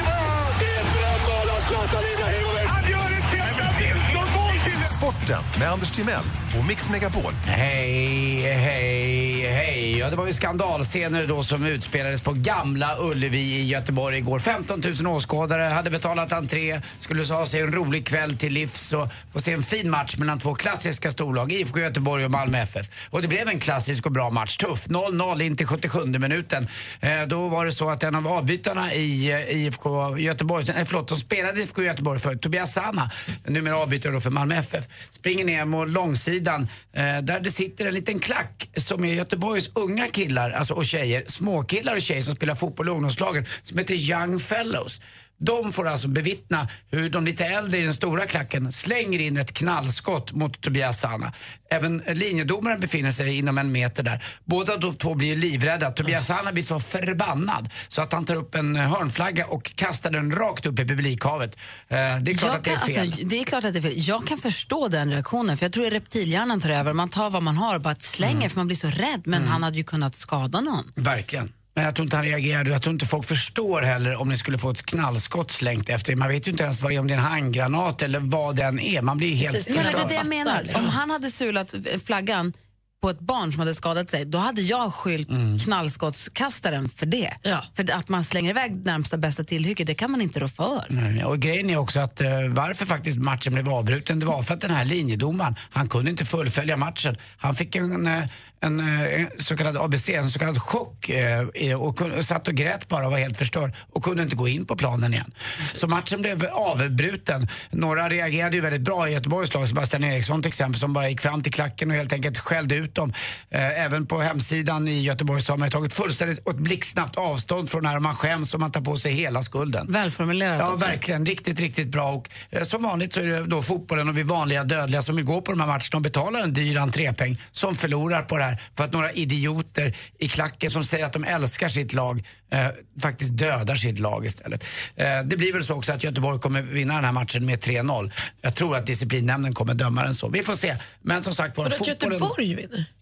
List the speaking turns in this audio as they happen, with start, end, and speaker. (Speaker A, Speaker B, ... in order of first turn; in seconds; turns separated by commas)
Speaker A: 4.7-7.4, Speaker B: 7.5-63.2, Speaker C: 62.3-70.9, Speaker B: 68.2-68.5, Speaker B: 69.3-69.6, Speaker B: 71.0-80.2, Speaker D: 79.4-81.0, Speaker C: 79.7-90.9, Speaker B: 85.3-85.6, Speaker B: 90.9-119.9, Speaker C: 119.9-121.0, Speaker B: 120.6-142.3, Speaker D: 141.6-142.9